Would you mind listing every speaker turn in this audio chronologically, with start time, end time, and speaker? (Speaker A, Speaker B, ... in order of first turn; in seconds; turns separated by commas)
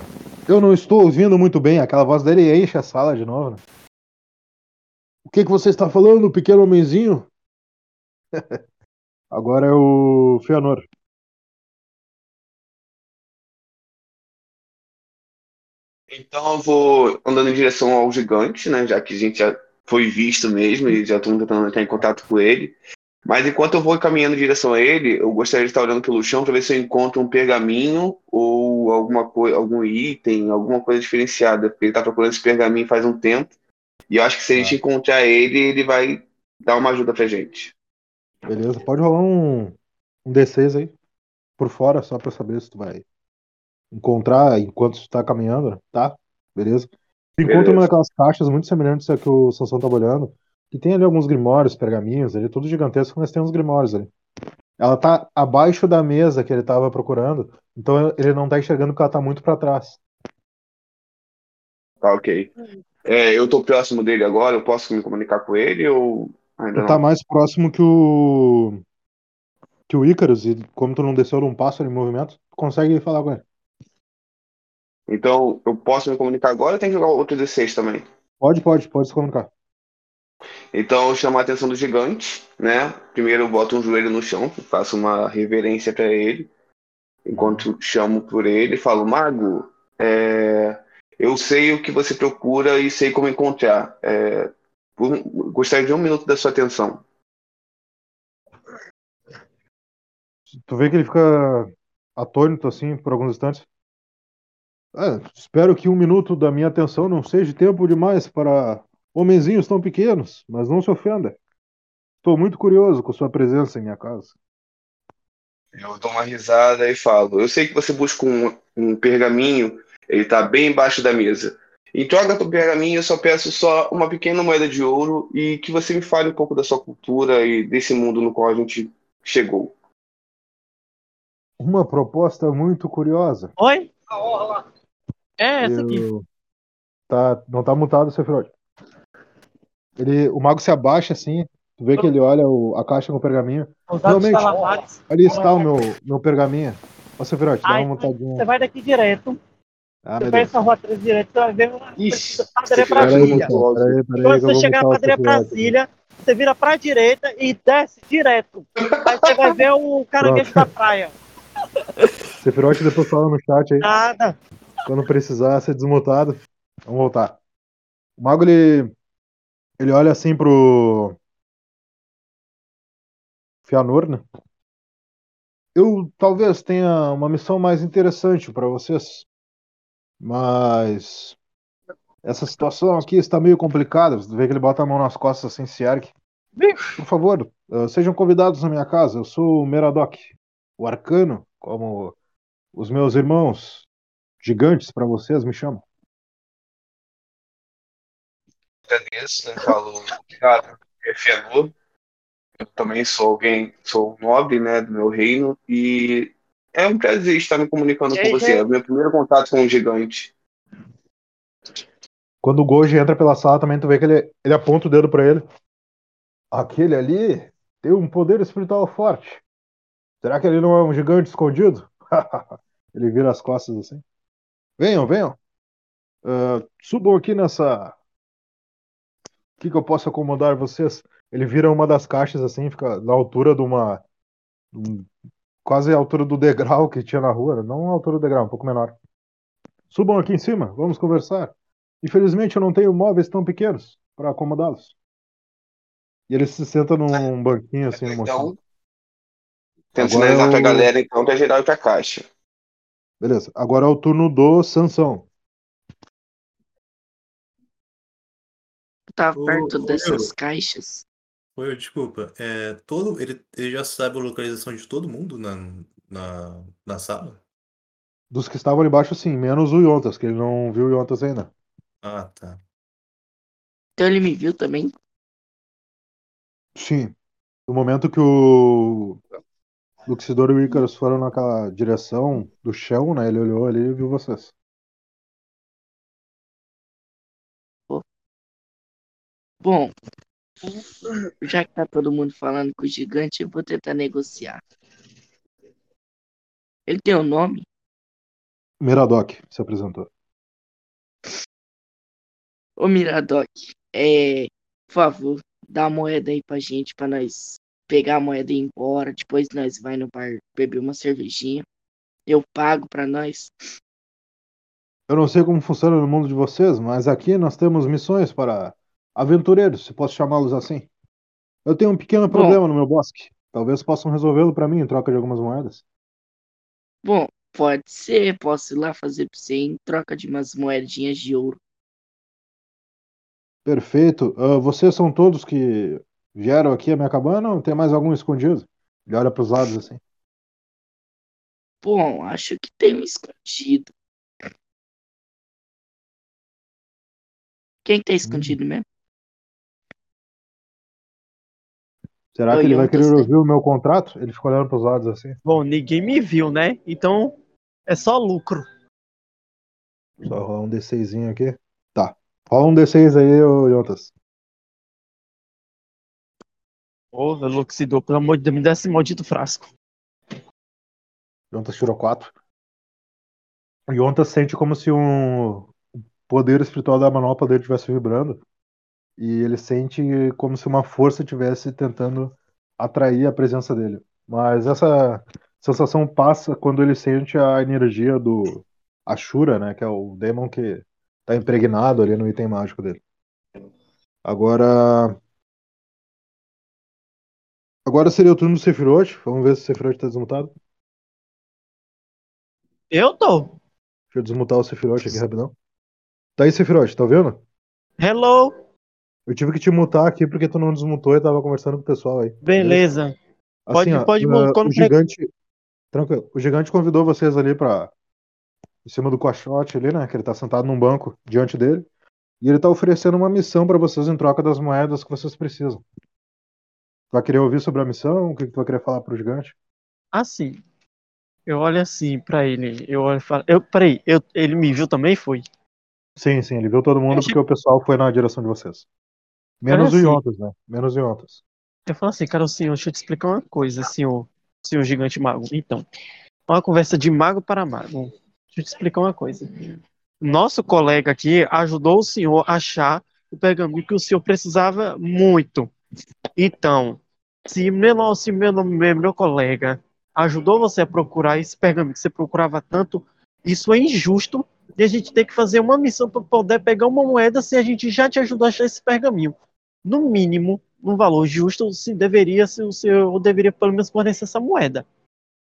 Speaker A: 0.5-3.6, Speaker A: 5.3-7.3, Speaker A: 9.3-10.9, Speaker B: 16.1-33.5, Speaker B: 34.1-37.7, Speaker A: 38.5-39.8, Speaker A: 40.3-40.9, Speaker A: 41.6-43.0, Speaker A: 43.9-54.1, Speaker B: 47.4-47.9, Speaker A: 54.8-60.0, Speaker B: 62.0-62.5, Speaker B: 63.0-67.0, Speaker A: 66.8-68.8, Speaker A: 69.9-73.4, Speaker B: 75.1-78.0, Speaker A: 78.4-79.5, Speaker B: 80.7-86.5, Speaker B: 87.2-97.0, Speaker A: 87.3-87.7, Speaker A: 100.7-103.7, Speaker A: 104.9-111.4, Speaker A: 112.2-114.3, Speaker B: 115.8-129.7, Speaker A: 131.6-133.5, Speaker C: 133.6-134.6, Speaker C: 135.4-136.0, Speaker A: 135.6-136.2, Speaker A: 137.1-138.5, Speaker A: 140.0-144.5, Speaker C: 143.9-145.7, Speaker A: 145.1-148.4, Speaker C: 147.7-149.4, Speaker A: 150.1-150.5, Speaker C: 150.2-153.5, Speaker B: 152.0-154.0, Speaker A: 153.0-155.7, Speaker C: 154.2-161.1, Speaker B: 158.8-159.6, Speaker A: 160.2-160.6, Speaker A: 162.4-163.9, Speaker C: 163.8-164.4, Speaker A: 164.9-167.4, Speaker A: 168.2-168.9, Speaker A: 169.8-171.2, Speaker A: 173.7-174.2, Speaker A: 175.8-179.3, Speaker A: 180.2-181.4, Speaker A: 182.2-186.1, Speaker C: 186.6-187.0, Speaker A: 187.0-192.2, Speaker A: 192.7-193.9, Speaker A: 194.4-195.8, Speaker B: 198.9-201.7, Speaker B: 202.6-210.3, Speaker C: 208.2-208.6, Speaker A: 212.4-215.4, Speaker A: 216.5-219.4, Speaker A: 220.2-224.0, Speaker A: 224.8-225.4, Speaker A: 226.2-227.9, Speaker A: 229.6-234.0, Speaker A: 234.7-235.1, Speaker A: 235.7-238.9, Speaker A: 239.9-244.9, Speaker A: 246.3-248.5, Speaker B: 247.9-248.6, Speaker B: 249.9-252.2, Speaker A: 250.0-250.9, Speaker A: 253.2-255.3, Speaker D: 259.1-261.0, Speaker E: 259.4-260.3, Speaker E: 261.6-267.4, Speaker A: 268.3-271.5, Speaker E: 272.0-272.6, Speaker D: 274.0-274.9, Speaker A: 276.8-277.1, Speaker A: 277.7-279.2, Speaker A: 280.1-284.5, Speaker D: 289.6-289.9, Speaker D: 291.4-294.6, Speaker D: 296.9-297.7, Speaker A: 298.8-300.1, Speaker D: 302.8-311.7, Speaker D: 312.3-313.5, Speaker A: 315.1-320.9, Speaker A: 321.7-325.8, Speaker D: 322.3-322.6, Speaker D: 327.0-331.6, Speaker A: 333.6-340.0, Speaker D: 341.8-343.9, Speaker D: 347.9-348.9, Speaker A: 348.2-348.6, Speaker A: 352.3-355.4, Speaker D: 352.5-353.3, Speaker C: 355.4-357.4, Speaker C: 357.9-358.7, Speaker A: 360.2-364.1, Speaker C: 367.1-369.7, Speaker A: 371.5-372.3, Speaker A: 373.9-375.7, Speaker A: 376.3-378.4, Speaker A: 379.2-393.0, Speaker A: 394.2-395.2, Speaker A: 397.9-400.5, Speaker C: 402.9-403.5, Speaker A: 404.1-405.5, Speaker A: 406.4-407.4, Speaker C: 408.0-408.6, Speaker A: 409.3-412.8, Speaker C: 412.4-413.1, Speaker A: 413.7-415.3, Speaker C: 413.7-414.9, Speaker A: 415.9-417.9, Speaker A: 418.9-421.9, Speaker A: 422.4-425.8, Speaker A: 427.1-429.5, Speaker C: 430.1-430.6, Speaker C: 431.5-435.4, Speaker A: 436.2-438.8, Speaker C: 437.1-437.4, Speaker A: 439.6-441.4, Speaker C: 439.7-440.2, Speaker C: 441.9-445.9, Speaker C: 446.5-449.5, Speaker C: 450.2-455.7, Speaker C: 456.4-474.9